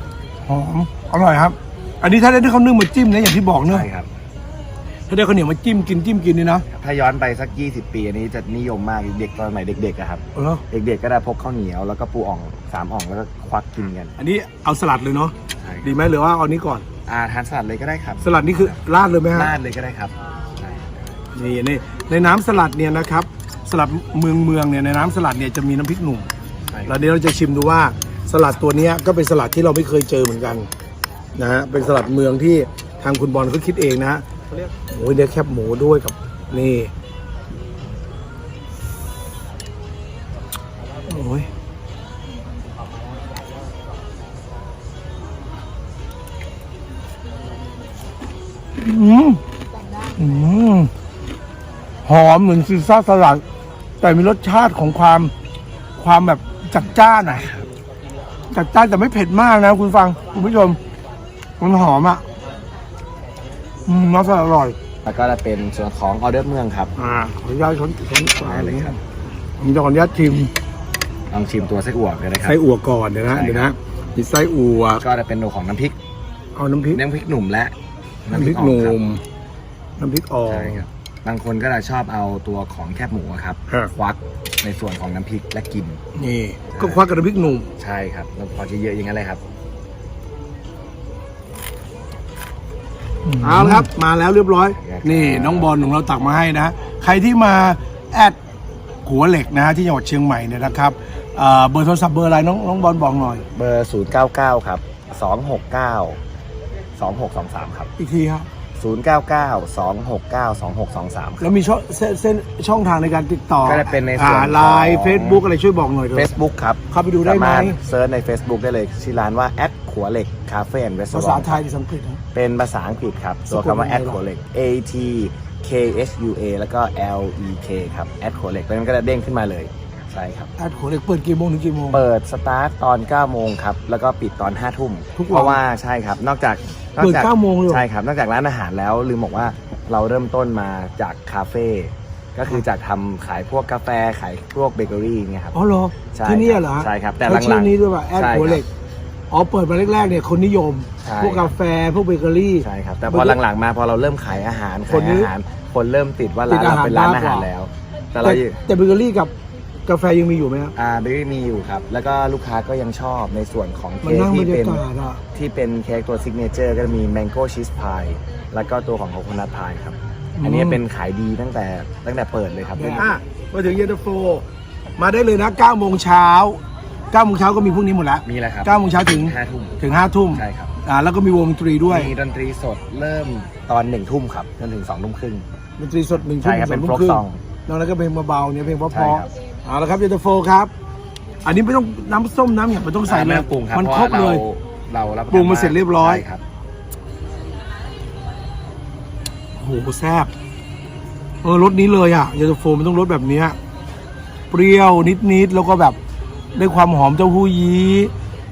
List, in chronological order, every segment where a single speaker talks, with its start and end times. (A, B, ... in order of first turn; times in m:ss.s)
0:00.5-0:03.9 A
0:03.6-0:04.1 B
0:05.1-0:06.6 A
0:06.7-0:14.2 B
0:10.4-0:10.6 A
0:14.2-0:16.8 A
0:15.6-0:16.0 B
0:17.1-0:18.8 B
0:18.2-0:19.5 A
0:19.3-0:21.2 B
0:21.3-0:26.3 A
0:26.7-0:27.2 B
0:26.9-0:30.7 A
0:31.4-0:36.9 A
0:41.1-0:41.5 A
0:48.8-0:49.4 A
0:50.1-0:50.9 A
0:52.1-0:53.4 A
0:54.0-0:55.3 A
0:56.0-0:57.5 A
0:56.8-0:57.7 B
0:58.5-1:00.8 A
1:01.6-1:02.2 A
1:03.9-1:04.8 A
1:05.0-1:06.9 B
1:07.0-1:09.0 A
1:08.4-1:09.0 B
1:09.6-1:10.5 A
1:11.3-1:12.6 B
1:12.4-1:15.0 A
1:13.2-1:13.7 B
1:15.0-1:16.0 B
1:16.6-1:17.0 A
1:16.9-1:19.0 B
1:18.3-1:19.2 A
1:20.0-1:20.8 A
1:20.4-1:26.0 B
1:26.2-1:27.7 A
1:26.7-1:27.0 B
1:27.8-1:29.4 B
1:33.3-1:38.4 A
1:34.8-1:35.7 B
1:39.0-1:43.4 A
1:43.5-1:46.2 B
1:47.0-1:47.9 B
1:48.0-1:48.5 A
1:48.8-1:51.5 B
1:51.4-1:56.3 A
1:53.6-1:55.4 B
1:56.1-2:01.6 B
1:56.9-1:57.8 A
2:01.1-2:02.2 A
2:02.3-2:10.5 B
2:03.5-2:04.2 A
2:10.6-2:12.0 A
2:11.9-2:25.6 B
2:15.2-2:15.6 A
2:17.0-2:17.8 A
2:25.5-2:28.7 A
2:26.1-2:28.6 B
2:29.3-2:33.4 A
2:31.0-2:31.5 B
2:32.6-2:38.6 B
2:34.9-2:35.3 A
2:36.5-2:37.5 A
2:38.2-2:39.3 A
2:39.9-2:40.7 A
2:40.8-2:44.8 B
2:44.0-2:45.2 A
2:45.4-2:53.2 B
2:50.4-2:50.8 A
2:52.7-2:54.4 A
2:55.0-2:56.6 A
2:57.1-3:02.1 A
2:58.2-2:59.8 B
3:00.3-3:00.7 B
3:01.9-3:05.5 B
3:05.8-3:10.7 A
3:06.1-3:07.4 B
3:08.9-3:09.3 B
3:11.4-3:14.4 A
3:13.1-3:16.4 B
3:15.3-3:16.2 A
3:19.6-3:20.3 A
3:21.4-3:23.6 A
3:24.5-3:26.0 A
3:26.6-3:28.1 A